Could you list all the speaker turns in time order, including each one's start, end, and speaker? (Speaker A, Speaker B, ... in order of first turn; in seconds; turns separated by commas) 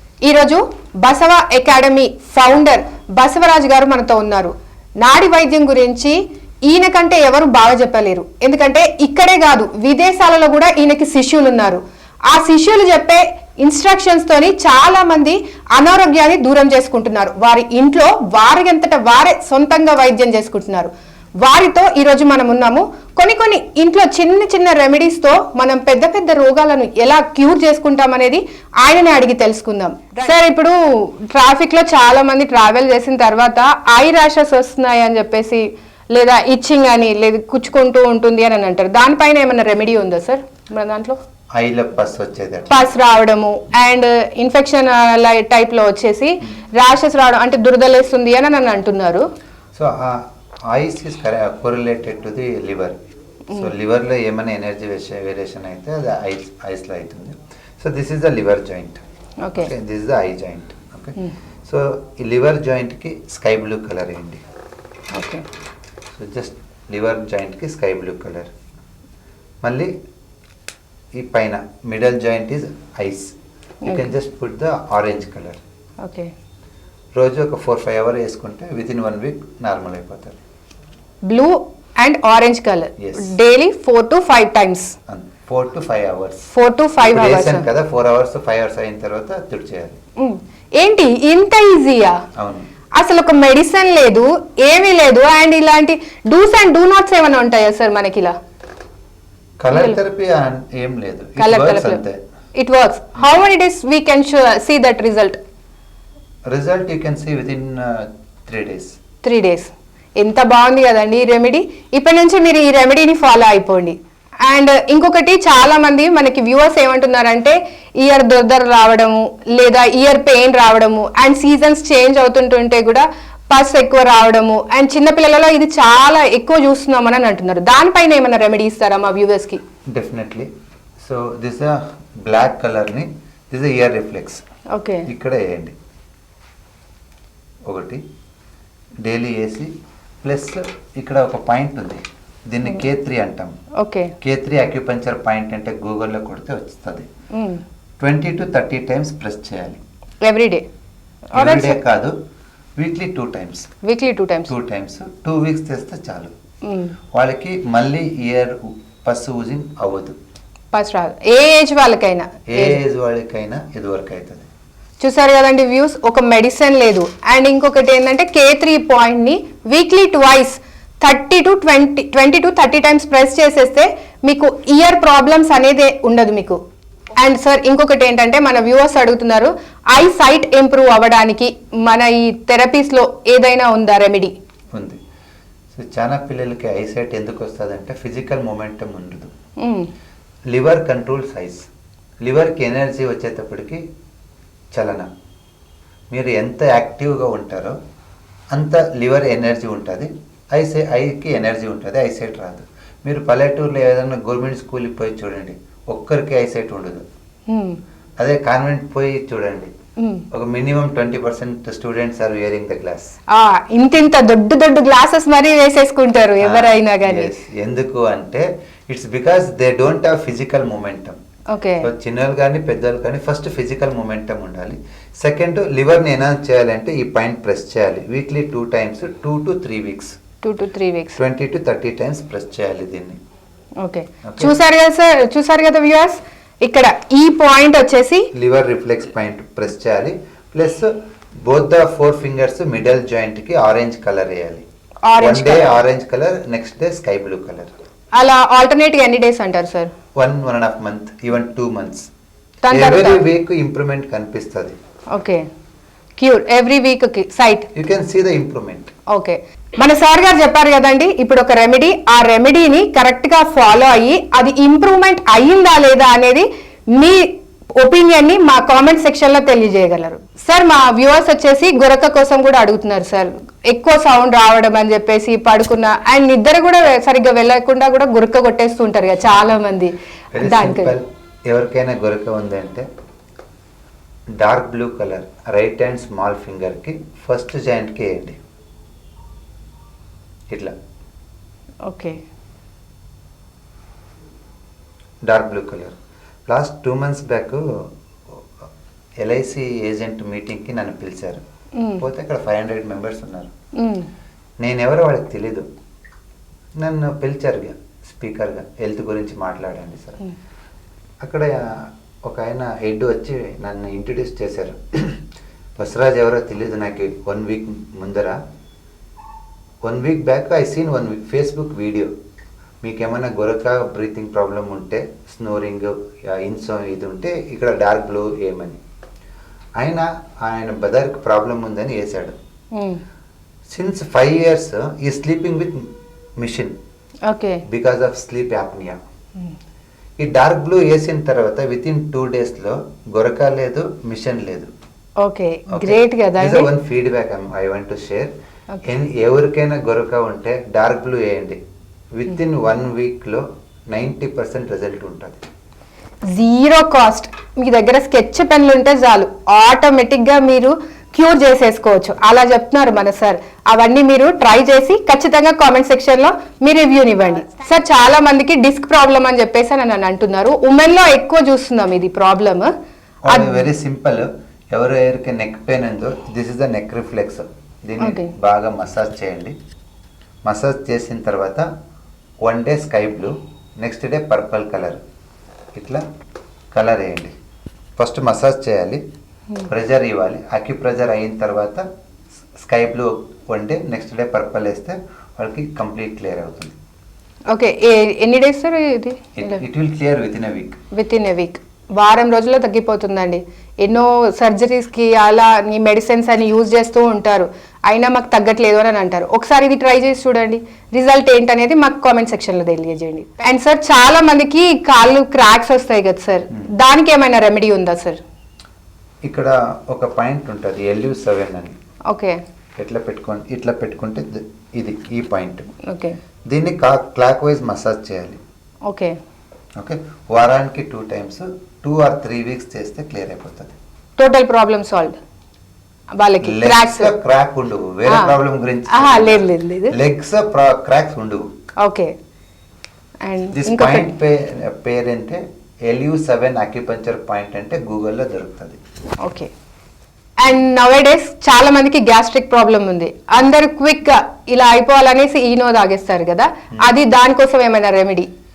Speaker A: 0.2-20.9, Speaker A: 21.4-41.2, Speaker B: 41.5-42.7, Speaker A: 42.7-49.2, Speaker B: 49.7-53.0, Speaker B: 53.5-59.0, Speaker A: 59.4-59.7, Speaker B: 59.5-64.4, Speaker A: 65.1-65.4, Speaker B: 66.1-68.5, Speaker B: 69.6-69.9, Speaker B: 71.2-73.3, Speaker A: 73.8-74.1, Speaker B: 73.9-75.6, Speaker A: 76.0-76.3, Speaker B: 77.2-80.4, Speaker A: 81.3-84.9, Speaker B: 83.0-83.3, Speaker B: 85.1-86.5, Speaker A: 86.5-87.7, Speaker B: 87.0-90.0, Speaker A: 90.2-92.2, Speaker B: 92.3-92.7, Speaker A: 93.0-98.3, Speaker B: 99.6-102.2, Speaker A: 99.7-100.0, Speaker A: 101.4-102.0, Speaker A: 102.6-105.4, Speaker B: 106.5-108.9, Speaker A: 109.2-129.6, Speaker B: 129.9-130.5, Speaker B: 131.0-134.4, Speaker A: 134.7-135.1, Speaker B: 135.1-135.7, Speaker B: 137.7-138.0, Speaker B: 139.0-139.7, Speaker B: 140.2-143.5, Speaker A: 143.8-144.1, Speaker B: 144.2-147.1, Speaker A: 147.3-147.6, Speaker B: 148.0-149.8, Speaker A: 150.2-150.6, Speaker A: 151.3-151.8, Speaker B: 151.3-152.1, Speaker B: 152.8-153.7, Speaker A: 153.8-154.5, Speaker B: 154.5-156.3, Speaker A: 156.6-156.9, Speaker B: 157.1-160.2, Speaker A: 160.7-162.8, Speaker B: 162.5-164.5, Speaker A: 165.0-176.6, Speaker A: 177.2-184.3, Speaker B: 184.7-185.0, Speaker B: 185.7-189.3, Speaker A: 189.6-189.9, Speaker B: 190.5-191.6, Speaker B: 192.2-193.8, Speaker B: 194.7-195.1, Speaker B: 196.1-197.8, Speaker B: 198.5-207.0, Speaker A: 207.5-207.8, Speaker B: 208.2-209.7, Speaker A: 210.0-210.2, Speaker B: 210.3-213.1, Speaker A: 213.3-217.3, Speaker B: 216.4-221.2, Speaker A: 221.5-221.9, Speaker B: 221.8-230.1, Speaker A: 230.4-231.2, Speaker B: 231.2-233.2, Speaker A: 233.8-238.3, Speaker B: 234.2-234.5, Speaker B: 238.3-240.9, Speaker B: 241.4-244.6, Speaker A: 245.0-245.8, Speaker B: 245.2-247.7, Speaker A: 248.2-249.9, Speaker B: 250.2-252.1, Speaker A: 252.6-253.2, Speaker B: 252.7-254.7, Speaker A: 255.1-255.4, Speaker A: 256.2-257.7, Speaker B: 257.7-258.9, Speaker A: 259.1-280.9, Speaker B: 280.3-282.9, Speaker B: 284.4-288.4, Speaker A: 291.8-292.2, Speaker B: 295.2-295.9, Speaker B: 296.5-297.6, Speaker B: 299.2-301.4, Speaker A: 301.8-302.0, Speaker B: 302.0-303.5, Speaker A: 303.8-304.1, Speaker B: 304.6-305.7, Speaker B: 306.8-310.2, Speaker B: 311.2-315.2, Speaker B: 315.8-318.4, Speaker B: 319.8-322.1, Speaker B: 322.8-328.8, Speaker B: 329.8-332.4, Speaker A: 332.8-333.0, Speaker B: 333.7-336.8, Speaker A: 337.3-337.6, Speaker B: 337.7-339.0, Speaker B: 340.2-344.7, Speaker A: 345.2-346.7, Speaker B: 345.7-348.3, Speaker B: 348.8-351.6, Speaker B: 352.1-355.4, Speaker A: 356.3-372.7, Speaker B: 373.2-379.6, Speaker A: 373.3-373.6, Speaker A: 378.0-378.3, Speaker B: 380.4-381.7, Speaker B: 382.4-385.0, Speaker B: 385.8-386.0, Speaker B: 386.7-387.3, Speaker B: 388.0-389.0, Speaker B: 389.7-391.8, Speaker B: 392.6-396.8, Speaker A: 397.5-399.6, Speaker B: 399.4-400.8, Speaker A: 400.9-418.2, Speaker B: 419.2-421.8, Speaker A: 422.1-422.4, Speaker B: 422.8-425.7, Speaker A: 425.8-426.2, Speaker B: 426.5-428.4, Speaker A: 428.9-429.1, Speaker B: 429.8-433.7, Speaker A: 434.2-435.2, Speaker A: 436.2-437.1, Speaker B: 436.4-441.5, Speaker A: 438.1-438.4, Speaker A: 438.9-439.9, Speaker A: 441.8-442.1, Speaker A: 443.2-444.1, Speaker B: 443.5-448.8, Speaker A: 449.2-449.5, Speaker A: 450.4-458.3